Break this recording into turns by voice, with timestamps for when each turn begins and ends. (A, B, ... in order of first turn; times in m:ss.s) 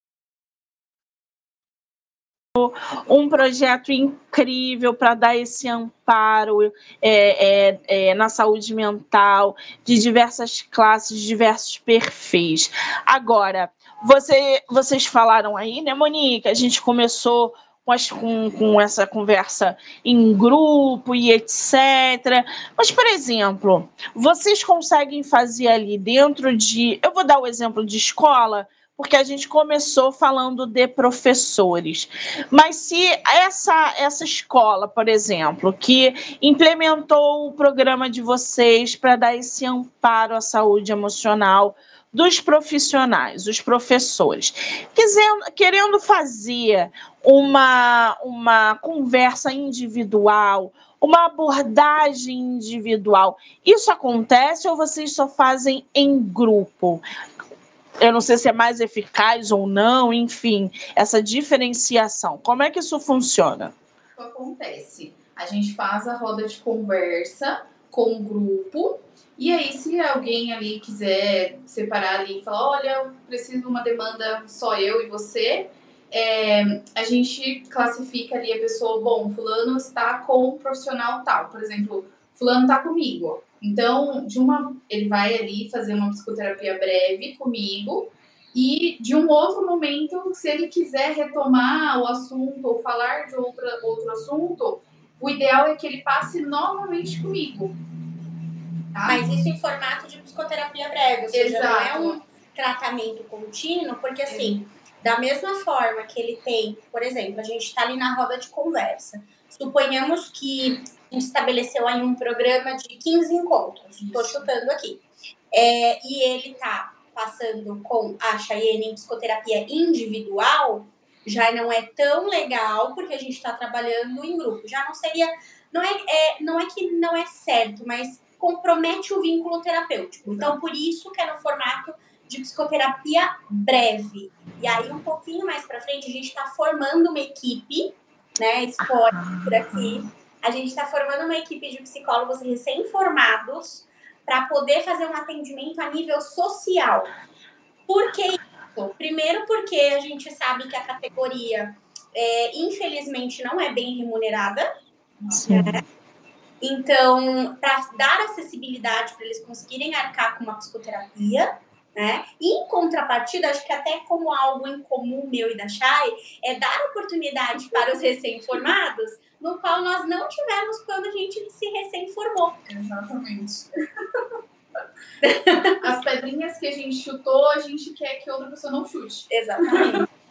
0:02.6-0:57.0 A
0:58.0-1:03.8 A
1:04.2-1:37.8 B
1:38.9-1:39.2 B
1:39.1-2:27.1 C
1:41.3-1:42.2 B
1:44.3-1:44.6 B
1:54.0-1:54.5 B
2:19.1-2:20.0 A
2:27.9-2:28.4 C
2:28.9-2:34.7 C
2:35.2-2:35.5 B
2:35.3-2:35.8 A
2:35.5-2:35.8 C
2:36.6-2:52.6 C
2:52.7-2:54.3 B
2:55.2-2:55.8 C
2:55.8-3:00.0 B
2:59.3-3:00.1 C